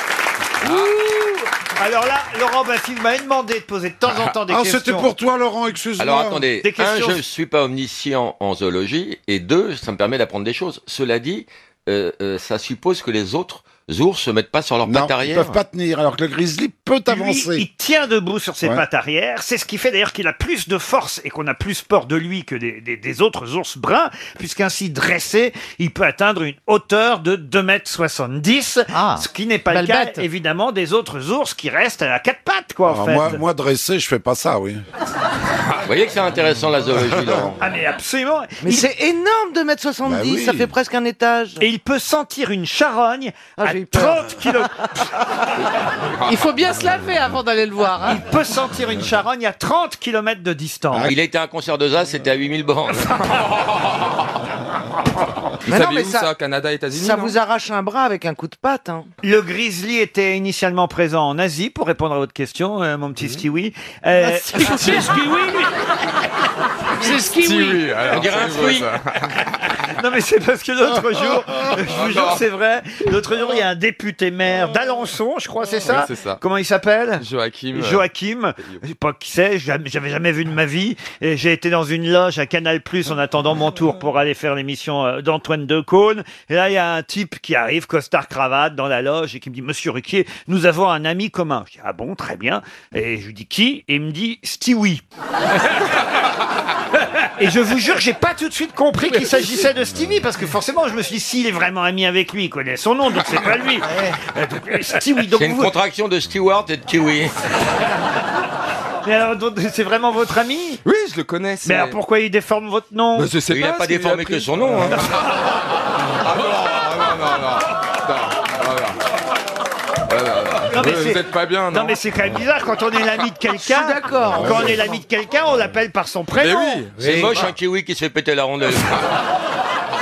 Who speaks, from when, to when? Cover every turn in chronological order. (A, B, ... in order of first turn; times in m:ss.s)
0:00.6-0:05.1 A
0:00.6-0:00.9 B
0:04.1-0:06.4 C
0:06.0-0:15.6 D
0:06.6-0:07.2 A
0:14.9-0:17.7 C
0:17.1-0:33.4 A
0:29.7-0:30.2 E
0:32.9-0:34.8 C
0:35.8-0:37.6 D
0:37.6-0:38.9 A
0:38.6-0:41.6 F
0:40.0-0:40.7 C
0:41.6-0:44.7 A
0:43.6-0:44.4 F
0:46.2-0:48.2 E
0:48.0-0:51.1 A
0:51.0-0:53.2 D
0:55.7-0:57.4 B
0:55.7-0:56.3 F
0:56.9-0:59.1 F
0:59.2-1:05.1 A
1:07.0-1:09.3 B
1:07.3-1:07.7 E
1:08.0-1:08.9 D
1:10.0-1:35.0 A
1:11.8-1:12.4 B
1:15.9-1:16.4 B
1:17.2-1:18.0 B
1:37.4-1:45.8 A
1:45.3-1:47.3 D
1:49.0-1:50.8 A
1:50.8-1:52.0 B
1:51.6-1:53.3 A
1:53.2-1:55.3 B
1:53.5-1:55.1 D
1:56.2-1:59.0 B
2:00.1-2:02.0 B
2:00.7-2:06.9 A
2:03.7-2:04.8 F
2:06.4-2:07.5 B
2:07.0-2:09.0 D